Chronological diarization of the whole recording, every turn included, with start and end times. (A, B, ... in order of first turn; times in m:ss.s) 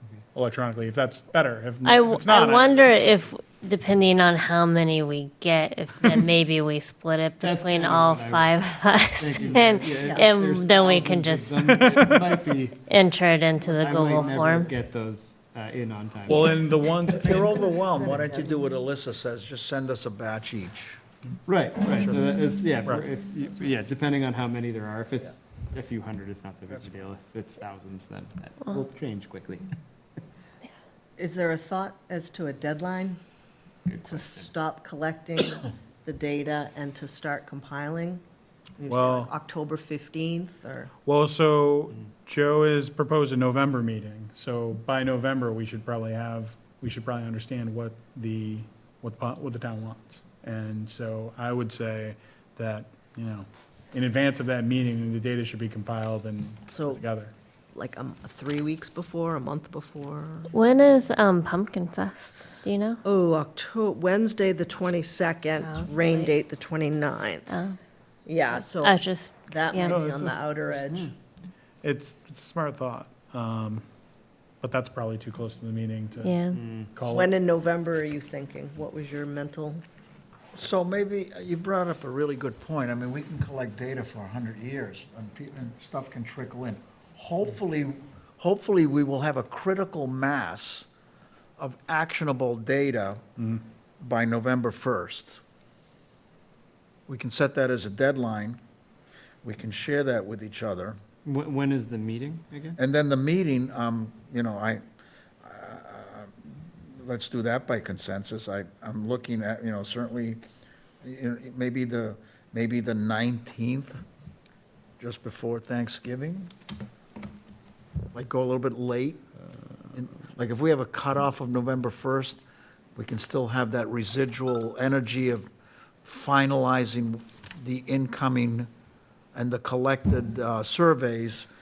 0:00.3-0:02.8 A
0:01.8-0:11.9 B
0:07.4-0:08.6 C
0:09.2-0:12.9 C
0:10.0-0:10.3 D
0:11.7-0:12.4 A
0:12.9-0:14.7 B
0:13.6-0:16.6 C
0:16.3-0:17.6 A
0:16.8-0:18.7 D
0:17.1-0:21.0 E
0:21.5-0:29.7 C
0:31.2-0:33.2 D
0:33.9-0:34.5 C
0:34.0-0:38.2 D
0:38.8-0:40.9 D
0:38.9-0:39.3 A
0:41.1-0:57.3 A
0:56.7-0:57.0 D
0:57.7-1:00.5 D
1:00.5-1:03.0 B
1:03.0-1:07.6 D
1:05.6-1:06.3 B
1:07.5-1:07.8 B
1:08.2-1:11.1 D
1:08.4-1:10.0 B
1:09.8-1:10.7 A
1:11.8-1:13.8 A
1:14.6-1:16.4 A
1:16.2-1:16.6 B
1:16.5-1:16.9 C
1:16.9-1:17.3 A
1:17.1-1:19.8 D
1:20.6-1:30.9 E
1:31.6-1:33.2 E
1:33.4-1:33.6 A
1:34.0-1:35.4 E
1:37.1-1:38.6 E
1:39.4-1:41.0 E
1:41.2-1:42.8 C
1:42.8-1:44.8 E
1:45.4-1:50.4 E
1:51.0-1:54.0 E
1:55.0-1:56.5 E
1:58.1-1:59.3 E
1:59.9-2:02.4 E
2:03.0-2:05.5 E
2:06.0-2:08.7 E
2:09.3-2:11.5 E